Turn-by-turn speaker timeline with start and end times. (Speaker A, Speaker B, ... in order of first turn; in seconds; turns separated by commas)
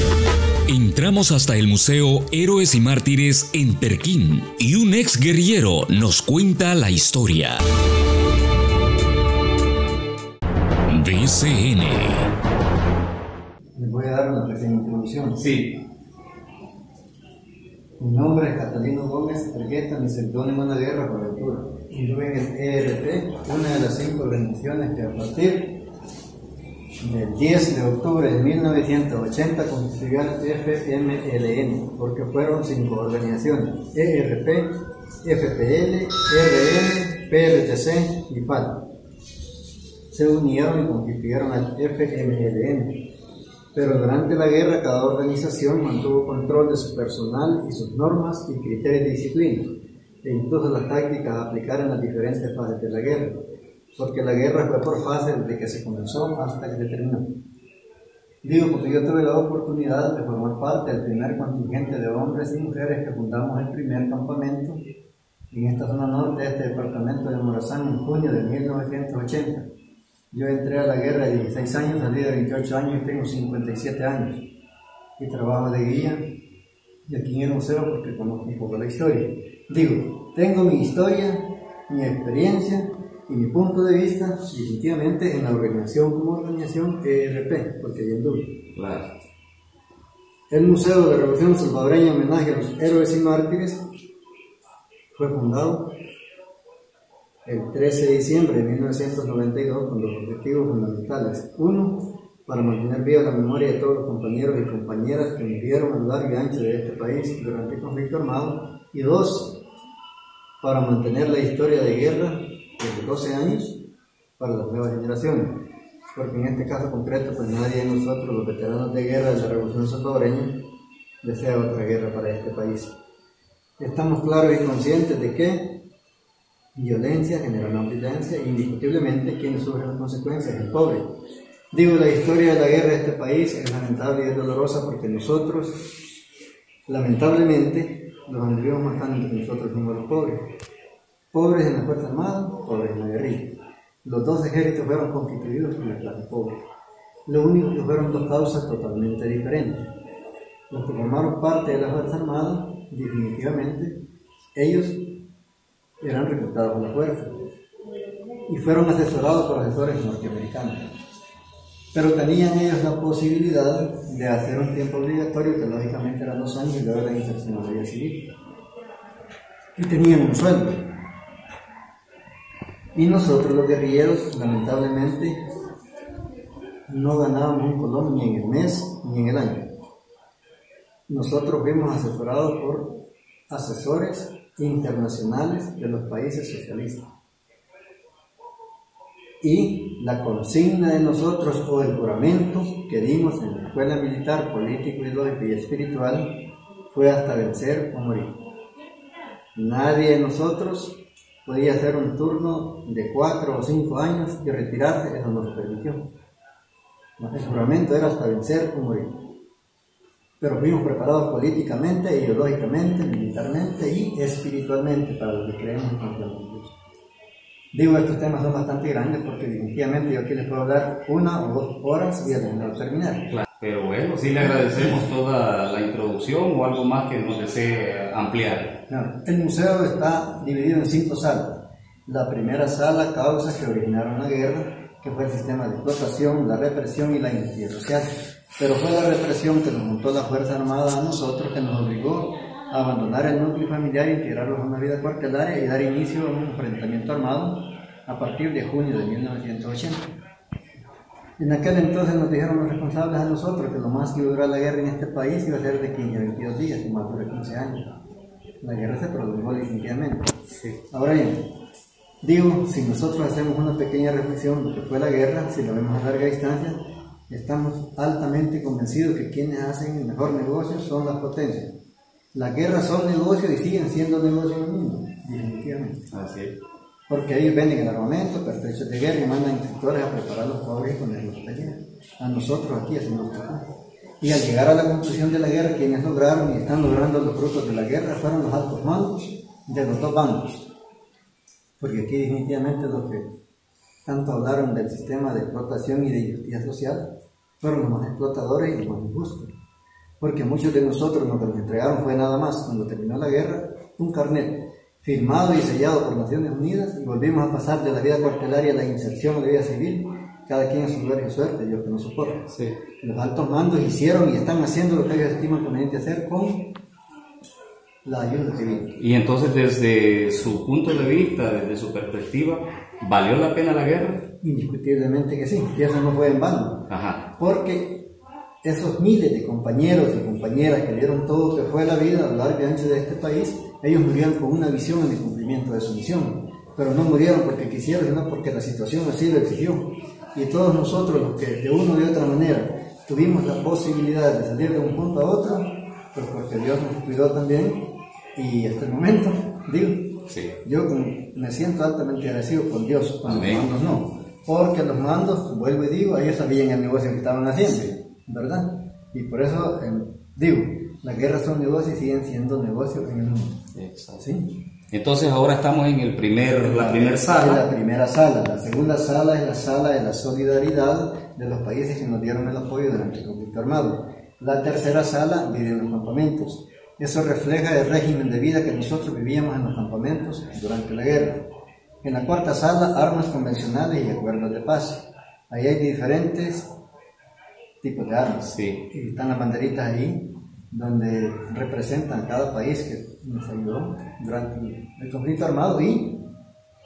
Speaker A: 0.7-7.6, Speaker A: 10.9-12.3, Speaker B: 13.8-15.5, Speaker C: 15.3-15.8, Speaker B: 18.0-25.8, Speaker B: 27.0-38.9, Speaker B: 40.1-43.1, Speaker B: 43.7-53.4, Speaker B: 54.0-57.3, Speaker B: 58.4-64.8, Speaker B: 65.5-69.7, Speaker B: 70.3-74.5, Speaker B: 75.2-76.2, Speaker B: 77.0-88.6, Speaker C: 88.7-89.1, Speaker B: 90.5-93.8, Speaker B: 95.1-96.0, Speaker B: 97.4-109.6, Speaker B: 110.6-113.8, Speaker B: 114.4-115.6, Speaker B: 116.1-120.6, Speaker B: 121.2-123.0, Speaker B: 123.8-125.8, Speaker B: 126.7-131.1, Speaker B: 131.7-136.1, Speaker B: 136.9-140.5, Speaker B: 141.3-146.7, Speaker B: 147.2-149.9, Speaker B: 150.7-154.0, Speaker B: 154.5-155.1, Speaker B: 156.0-157.4, Speaker B: 158.4-160.9, Speaker B: 161.9-168.3, Speaker B: 169.8-170.9, Speaker B: 172.9-175.4, Speaker B: 176.9-179.7, Speaker B: 181.1-187.1, Speaker B: 189.4-198.4, Speaker B: 199.5-206.1, Speaker B: 207.2-209.2, Speaker B: 210.4-216.7, Speaker B: 217.7-223.3, Speaker C: 223.3-228.8, Speaker B: 228.9-250.1, Speaker B: 251.4-258.0, Speaker B: 258.6-260.4, Speaker B: 260.9-261.5, Speaker B: 262.2-271.7, Speaker B: 272.3-276.0, Speaker C: 276.1-276.5, Speaker B: 277.1-283.6, Speaker B: 284.2-290.6, Speaker B: 291.8-293.3, Speaker B: 294.1-299.5, Speaker B: 300.2-312.5, Speaker C: 312.5-312.8, Speaker B: 313.0-316.8, Speaker B: 318.0-318.9, Speaker C: 318.9-324.2, Speaker B: 324.4-364.6, Speaker C: 326.9-327.2, Speaker C: 350.3-350.5, Speaker C: 353.2-353.7, Speaker C: 363.7-364.2, Speaker C: 364.9-367.6, Speaker B: 366.6-381.5, Speaker B: 382.0-386.7, Speaker B: 387.8-396.3, Speaker C: 388.4-388.8